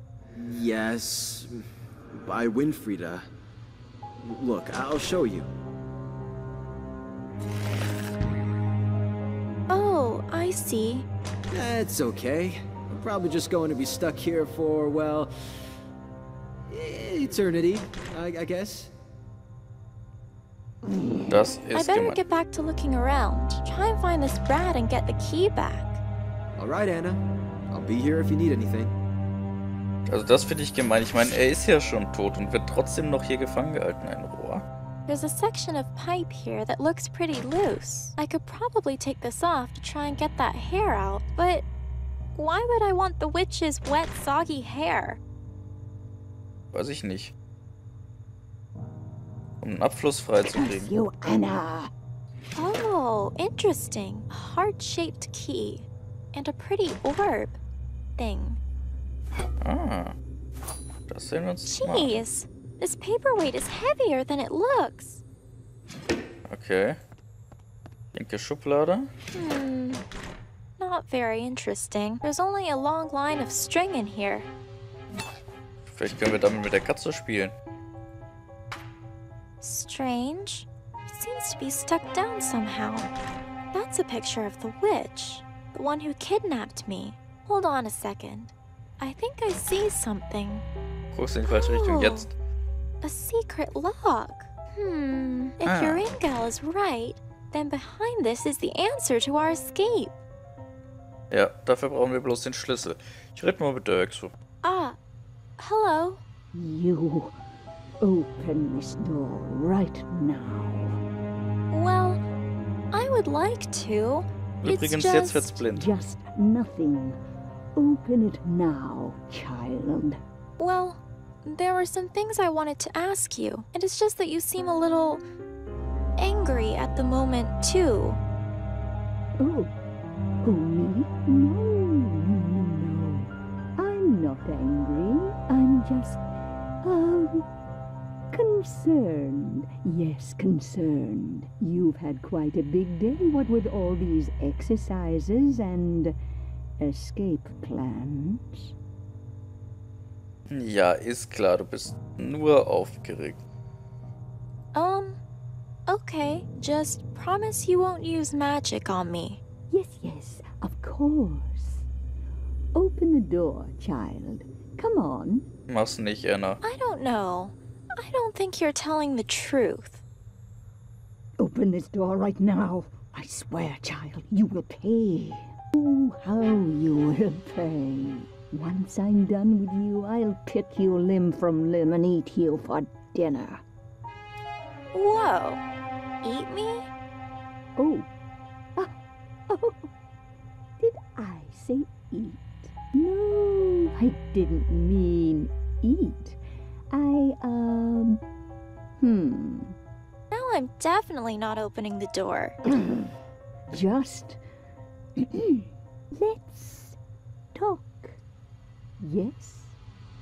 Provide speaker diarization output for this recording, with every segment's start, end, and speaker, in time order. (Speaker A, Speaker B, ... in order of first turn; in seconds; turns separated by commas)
Speaker A: 0.3-1.6, Speaker A: 2.1-3.3, Speaker A: 4.2-5.5, Speaker B: 9.7-11.1, Speaker A: 11.5-15.3, Speaker A: 16.7-18.9, Speaker C: 21.3-22.2, Speaker B: 21.7-26.0, Speaker A: 26.6-28.9, Speaker C: 30.1-34.6, Speaker B: 35.1-41.6, Speaker B: 42.3-45.2, Speaker C: 46.7-47.3, Speaker C: 49.6-50.9, Speaker D: 50.4-51.9, Speaker B: 52.5-57.6, Speaker B: 58.2-58.6, Speaker C: 59.6-60.1, Speaker C: 61.1-62.2, Speaker B: 61.6-65.2, Speaker C: 66.5-67.0, Speaker C: 68.1-69.1, Speaker B: 69.3-70.0, Speaker B: 70.8-74.5, Speaker C: 75.8-77.5, Speaker B: 79.6-83.1, Speaker B: 83.7-90.6, Speaker C: 91.1-92.3, Speaker B: 91.5-92.3, Speaker B: 93.0-100.2, Speaker C: 95.6-96.0, Speaker C: 101.3-104.3, Speaker B: 104.6-105.0, Speaker B: 105.6-106.2, Speaker D: 106.5-107.3, Speaker D: 108.0-111.0, Speaker B: 111.7-112.2, Speaker B: 112.9-115.6, Speaker C: 114.6-115.9, Speaker D: 115.7-117.2, Speaker D: 117.8-120.2, Speaker B: 120.6-125.2, Speaker B: 126.2-128.2, Speaker D: 129.4-129.7, Speaker D: 130.4-136.2, Speaker D: 136.8-137.5, Speaker D: 138.3-146.1, Speaker D: 146.8-148.7, Speaker C: 150.5-153.4, Speaker B: 154.7-155.2, Speaker B: 155.9-159.4, Speaker D: 159.7-161.8, Speaker D: 162.7-165.5, Speaker C: 165.7-166.6, Speaker B: 166.6-170.0, Speaker D: 171.4-183.6, Speaker B: 184.9-185.6, Speaker B: 186.2-186.9, Speaker D: 187.8-188.1, Speaker D: 189.5-189.9, Speaker D: 190.8-196.4, Speaker D: 196.9-198.2, Speaker D: 199.0-199.7, Speaker B: 200.3-202.6, Speaker D: 203.7-204.4, Speaker D: 205.3-205.7, Speaker D: 206.2-207.0, Speaker D: 207.5-208.2, Speaker D: 209.0-209.8